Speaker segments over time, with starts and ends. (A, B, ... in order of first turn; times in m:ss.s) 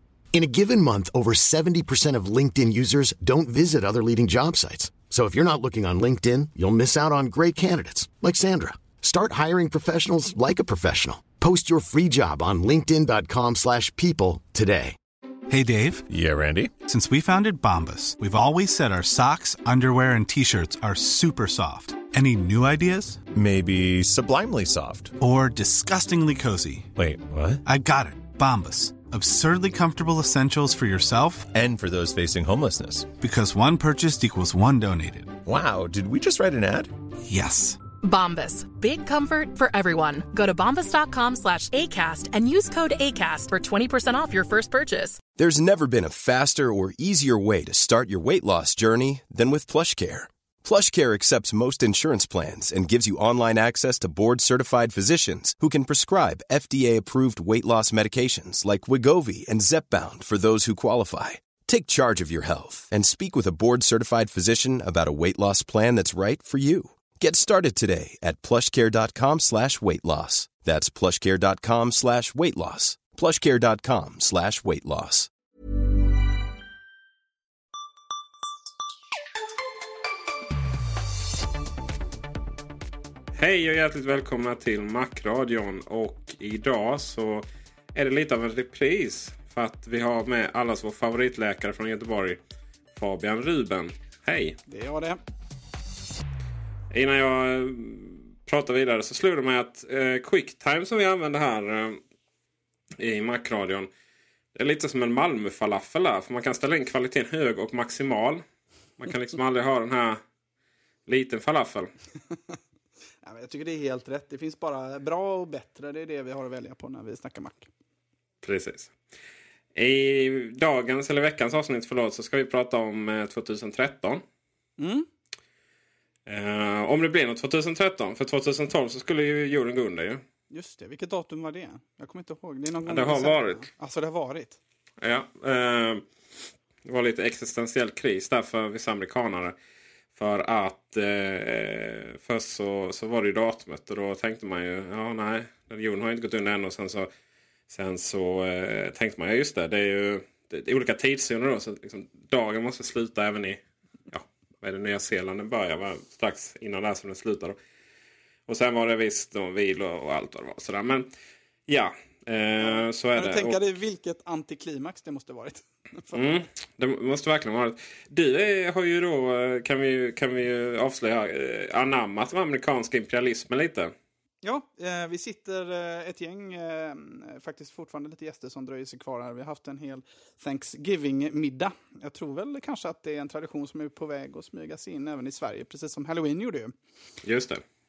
0:00.3-0:15.0 A
0:15.5-0:16.0 B
0:16.1-0:16.7 C
0:16.8-0:23.2 B
0:23.3-0:25.1 C
0:25.2-0:26.9 B
0:26.9-0:27.6 C
0:27.6-0:31.5 B
0:31.5-0:33.1 C
0:33.2-0:35.4 B
0:35.4-0:36.9 C
0:37.2-0:37.8 B
0:38.0-0:45.2 D
0:45.4-1:15.3 E
1:23.3-1:32.4 F
1:32.9-1:34.6 F
1:34.7-1:35.2 G
1:36.9-1:42.0 F
1:43.0-1:43.9 F
1:44.5-1:48.4 F
1:49.0-1:50.2 F
1:51.1-1:51.9 F
1:53.2-1:57.7 G
1:58.4-1:58.9 F
1:59.7-2:04.2 F
2:04.8-2:05.1 G
2:06.2-2:10.2 F
2:10.5-2:14.6 G
2:12.8-2:13.6 F
2:15.0-2:16.0 F
2:16.8-2:19.5 F
2:20.1-2:27.1 F
2:27.7-2:37.6 F
2:38.5-2:41.1 F
2:41.7-2:43.6 F
2:42.6-2:46.4 G
2:46.1-2:53.9 F
2:54.4-3:06.7 G
3:07.2-3:07.6 F